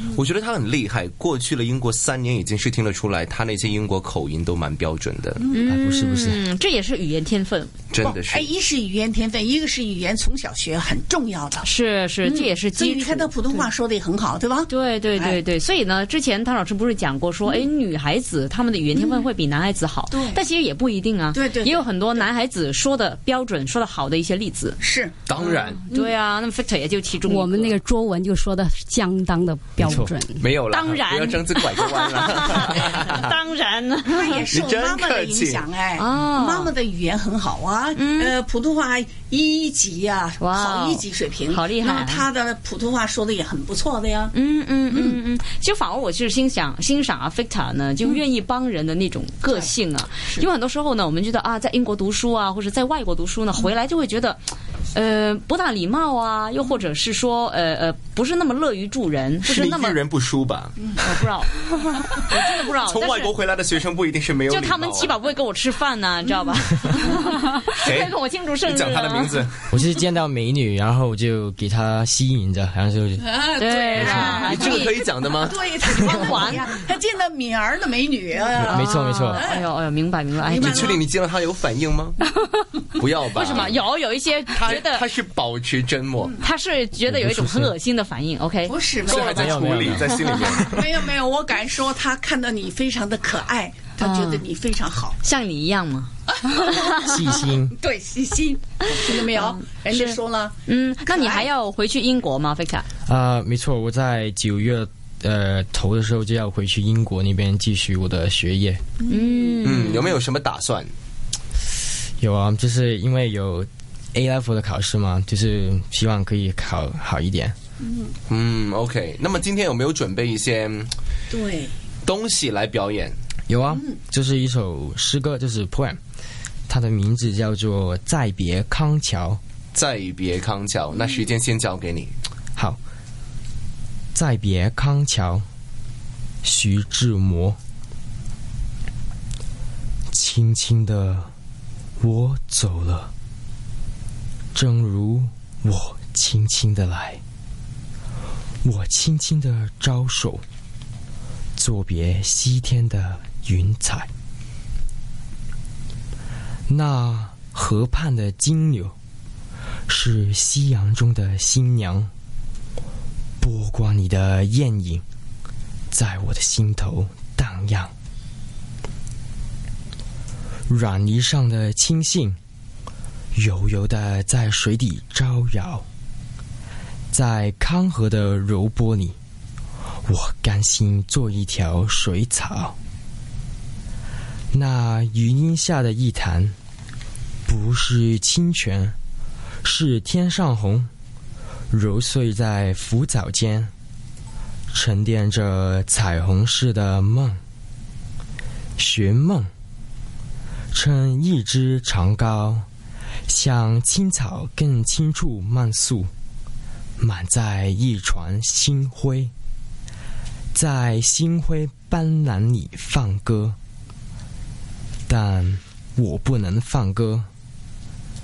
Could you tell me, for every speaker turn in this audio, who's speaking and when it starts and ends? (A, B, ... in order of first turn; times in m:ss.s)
0:00.1-0:05.4 A
0:05.4-0:05.6 B
0:05.5-0:07.7 C
0:05.6-0:06.4 D
0:07.9-0:08.5 A
0:08.0-0:11.7 B
0:11.6-0:13.3 C
0:12.2-0:15.4 B
0:14.7-0:24.8 C
0:18.9-0:19.3 B
0:20.1-0:20.4 B
0:21.3-0:21.9 B
0:24.8-0:25.2 B
0:25.3-0:25.9 A
0:25.7-0:27.8 C
0:27.2-0:30.4 E
0:29.8-0:30.1 D
0:30.4-0:33.3 A
0:30.7-0:34.4 C
0:34.0-0:44.3 B
0:34.5-0:35.6 A
0:36.0-0:36.7 C
0:38.0-0:38.4 C
0:40.4-0:42.2 C
0:44.3-0:54.4 C
0:44.9-0:45.2 B
0:54.9-1:00.0 C
0:59.4-1:00.9 A
1:01.0-1:03.3 C
1:02.8-1:05.1 A
1:04.5-1:09.4 C
1:07.8-1:09.8 A
1:09.7-1:13.3 D
1:13.2-1:14.8 B
1:13.6-1:15.0 C
1:13.9-1:16.4 A
1:15.4-1:18.8 B
1:16.0-1:16.6 C
1:18.6-1:19.5 D
1:18.7-1:21.0 C
1:19.3-1:19.7 B
1:20.4-1:21.0 B
1:20.5-1:22.2 A
1:22.9-1:23.8 A
1:23.3-1:25.0 C
1:24.5-1:26.4 A
1:26.4-1:30.6 C
1:27.1-1:27.8 D
1:28.6-1:29.3 B
1:29.1-1:30.8 A
1:29.2-1:30.8 D
1:30.6-1:35.2 B
1:34.0-1:34.4 C
1:35.2-1:36.1 C
1:36.6-1:36.8 C
1:37.0-1:37.7 D
1:37.8-1:41.5 B
1:39.4-1:42.8 C
1:43.0-1:48.8 D
1:49.0-1:49.7 B
1:49.1-1:50.2 C
1:49.6-1:50.9 A
1:52.2-1:57.5 D
1:57.8-1:58.1 B
1:58.3-2:00.9 A
2:01.3-2:01.7 B
2:02.0-2:03.2 A
2:03.5-2:06.0 D
2:06.7-2:09.4 D
2:09.7-2:12.1 A
2:14.1-2:15.4 D
2:16.4-2:17.6 D
2:20.1-2:21.3 D
2:22.0-2:23.1 D
2:24.5-2:27.2 D
2:28.6-2:30.4 D
2:31.6-2:34.1 D
2:36.7-2:38.9 D
2:39.9-2:42.1 D
2:43.4-2:45.0 D
2:45.9-2:47.9 D
2:50.7-2:52.4 D
2:53.3-2:55.8 D
2:57.1-2:59.2 D
3:00.0-3:02.7 D
3:04.5-3:06.6 D
3:07.4-3:09.0 D
3:09.6-3:10.9 D
3:11.7-3:13.7 D
3:14.7-3:17.4 D
3:18.8-3:19.5 D
3:20.7-3:22.7 D
3:23.3-3:26.1 D
3:27.0-3:29.3 D
3:30.5-3:33.6 D
3:35.1-3:37.3 D